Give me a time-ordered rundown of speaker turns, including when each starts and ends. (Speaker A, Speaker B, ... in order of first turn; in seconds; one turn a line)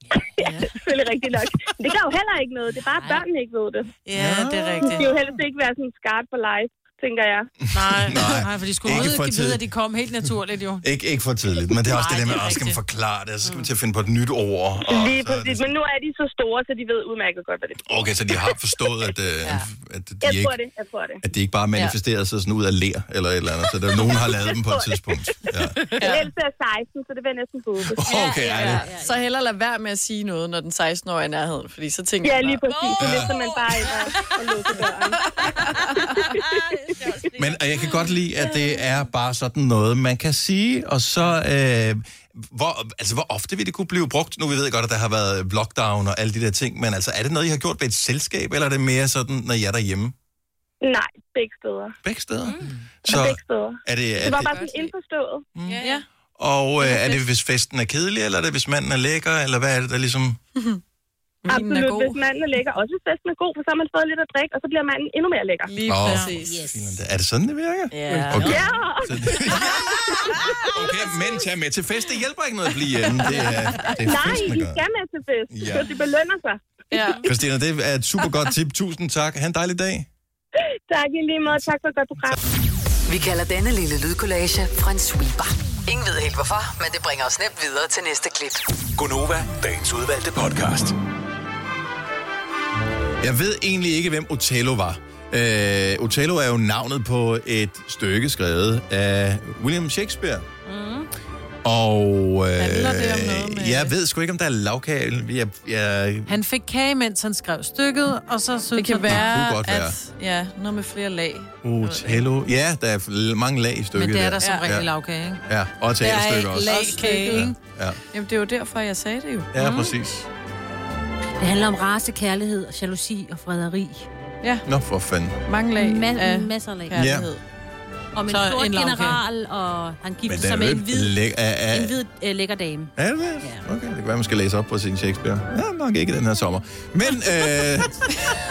Speaker A: 0.2-3.9
Speaker B: 0.4-0.7
Speaker B: 4.1-5.3
Speaker C: 4.1-5.0
Speaker A: 4.8-7.5
Speaker B: 7.7-10.9
Speaker C: 7.8-9.6
Speaker C: 10.8-15.7
Speaker B: 11.8-12.8
Speaker D: 13.4-13.7
Speaker A: 14.8-18.6
Speaker C: 17.8-20.6
Speaker A: 20.2-21.2
Speaker C: 21.2-25.8
Speaker A: 24.1-25.0
Speaker E: 26.0-26.3
Speaker A: 26.0-28.0
Speaker C: 27.9-28.9
Speaker D: 28.0-29.2
Speaker E: 28.5-32.7
Speaker A: 32.2-35.3
Speaker D: 32.8-33.9
Speaker C: 33.0-33.4
Speaker E: 35.1-36.2
Speaker D: 35.4-37.6
Speaker C: 37.3-50.1
Speaker A: 50.8-52.0
Speaker C: 52.0-54.6
Speaker D: 52.4-52.7
Speaker A: 53.0-55.5
Speaker E: 54.2-55.0
Speaker C: 55.6-55.8
Speaker E: 55.6-56.1
Speaker C: 56.4-60.4
Speaker E: 56.8-57.2
Speaker E: 60.6-60.8
Speaker E: 61.5-62.2
Speaker A: 61.5-65.8
Speaker E: 65.7-66.6
Speaker C: 65.8-74.8
Speaker D: 66.4-67.0
Speaker E: 67.9-68.8
Speaker B: 68.1-68.5
Speaker A: 68.5-70.3
Speaker A: 74.0-76.6
Speaker C: 75.5-75.9
Speaker E: 76.9-77.3
Speaker C: 77.2-80.1
Speaker A: 80.9-82.4
Speaker F: 83.1-88.6
Speaker G: 89.0-90.9
Speaker C: 93.2-100.5
Speaker D: 100.7-101.1
Speaker C: 101.6-106.4
Speaker E: 102.6-103.9
Speaker B: 106.3-109.3
Speaker E: 108.8-112.2
Speaker C: 109.0-110.0
Speaker C: 111.6-114.9
Speaker B: 114.0-115.4
Speaker C: 115.5-118.0
Speaker B: 116.0-117.6
Speaker E: 116.6-117.5
Speaker E: 118.1-119.5
Speaker C: 119.5-120.3
Speaker D: 119.6-119.9
Speaker D: 121.4-124.1
Speaker C: 124.7-125.4
Speaker E: 125.5-127.4
Speaker D: 125.8-127.0
Speaker C: 127.0-127.3
Speaker D: 128.2-131.1
Speaker B: 128.3-129.2
Speaker C: 130.3-132.0
Speaker D: 131.7-133.7
Speaker C: 133.0-138.1